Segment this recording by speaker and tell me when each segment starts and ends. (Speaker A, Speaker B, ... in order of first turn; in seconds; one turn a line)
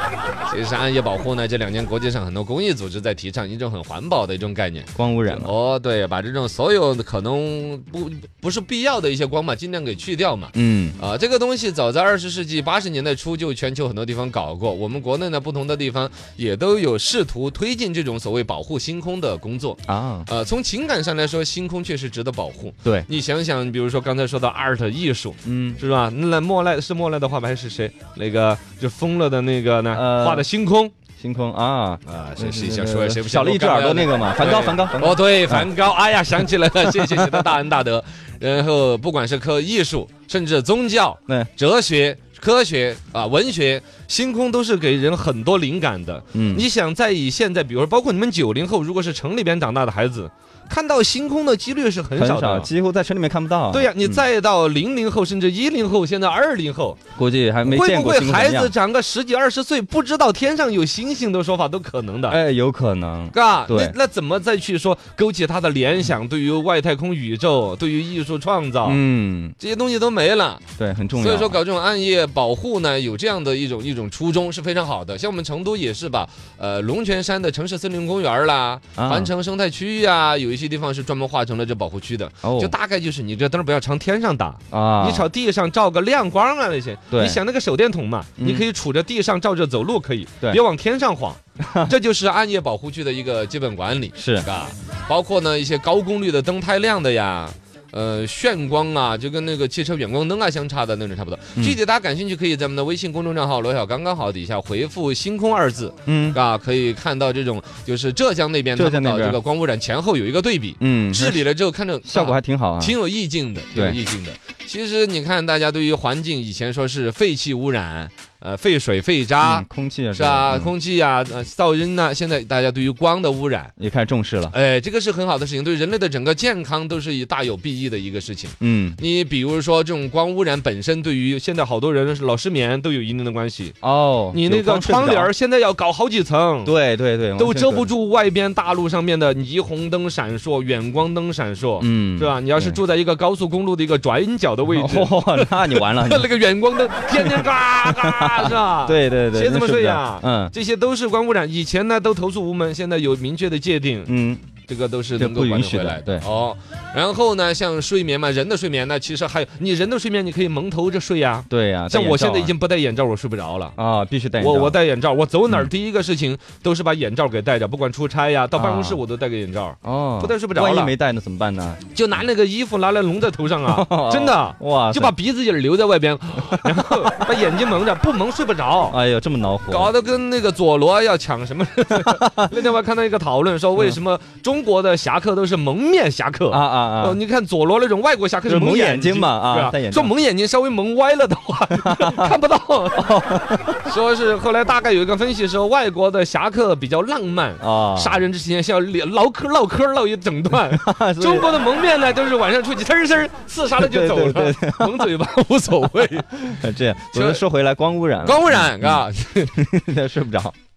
Speaker A: 0.5-30.9
Speaker B: 5.0-5.5
Speaker B: 10.5-10.9
Speaker B: 19.9-20.3
Speaker B: 25.4-25.8
Speaker B: 29.9-30.5
Speaker B: 31.2-35.7
Speaker A: 32.0-52.7
Speaker B: 46.3-46.6
Speaker B: 52.1-54.2
Speaker A: 53.7-57.0
Speaker B: 57.1-58.7
Speaker A: 57.6-62.4
Speaker B: 62.3-63.9
Speaker A: 63.3-69.0
Speaker B: 68.8-69.5
Speaker A: 69.6-70.6
Speaker B: 70.8-71.6
Speaker A: 71.1-123.7
Speaker B: 79.0-79.3
Speaker B: 82.4-82.7
Speaker B: 84.7-85.3
Speaker B: 87.1-87.4
Speaker B: 88.4-88.7
Speaker B: 91.6-91.9
Speaker B: 94.2-94.5
Speaker B: 106.1-106.4
Speaker B: 108.7-109.4
Speaker B: 110.8-111.4
Speaker B: 112.0-112.9
Speaker B: 119.4-120.7
Speaker B: 123.8-124.5
Speaker A: 124.5-133.8
Speaker B: 128.6-129.0
Speaker B: 133.8-135.3
Speaker A: 134.3-136.7
Speaker B: 136.6-137.9
Speaker A: 137.4-154.1
Speaker B: 141.8-142.8
Speaker B: 144.7-146.3
Speaker B: 147.1-150.5
Speaker B: 154.1-154.4
Speaker A: 154.7-163.7
Speaker B: 155.2-156.2
Speaker B: 161.5-162.5
Speaker B: 163.8-164.8
Speaker A: 164.4-170.9
Speaker B: 168.5-169.0
Speaker B: 169.8-171.8
Speaker A: 171.9-178.9
Speaker B: 173.6-175.2
Speaker B: 176.7-177.2
Speaker B: 178.8-179.9
Speaker A: 179.7-193.3
Speaker B: 181.9-182.5
Speaker B: 186.5-187.2
Speaker B: 188.4-190.1
Speaker B: 191.7-192.3
Speaker B: 193.0-193.8
Speaker A: 193.8-206.5
Speaker B: 197.6-198.3
Speaker B: 200.7-201.5
Speaker B: 203.7-205.1
Speaker B: 206.3-209.0
Speaker A: 207.1-207.4
Speaker A: 208.2-209.5
Speaker B: 209.5-210.5